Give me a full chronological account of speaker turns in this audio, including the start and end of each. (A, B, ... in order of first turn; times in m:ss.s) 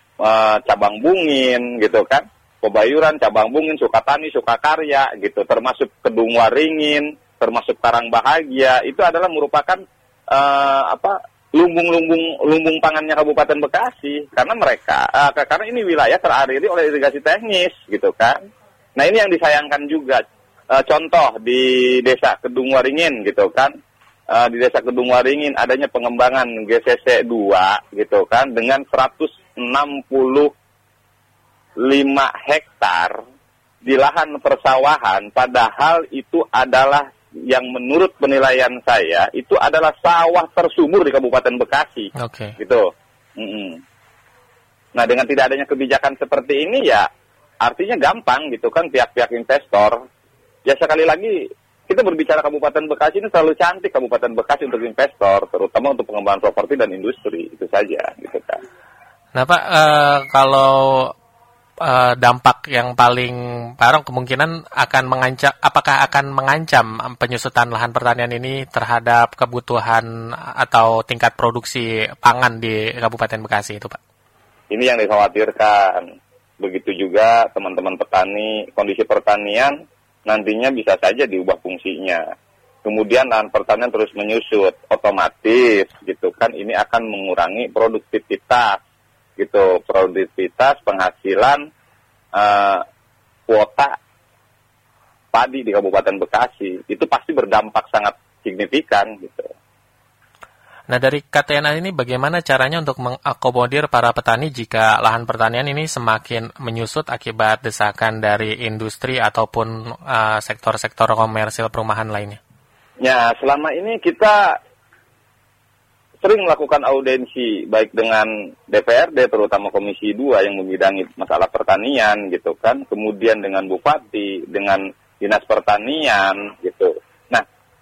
0:00.2-0:09.8 A
0:10.3-0:18.4 A
0:19.0-0:20.2 A
0:20.7-0:23.7 A
0:24.3-0:30.5 A
0:31.8-0:33.2 A
0:33.8-0:43.8 A
0:42.2-0:42.6 B
0:45.0-0:47.1 A
0:47.6-0:50.0 A
0:50.7-0:51.4 A
0:51.9-0:58.6 A
0:59.3-1:01.1 B
1:01.8-1:14.0 B
1:14.7-1:16.0 A
1:16.6-1:19.8 A
1:20.3-1:22.2 A
1:22.8-1:28.8 A
1:29.4-1:31.6 A
1:32.4-1:32.8 A
1:33.5-1:33.9 A
1:35.3-1:39.5 A
1:40.9-1:52.4 B
1:53.0-1:54.6 A
1:56.2-2:07.4 A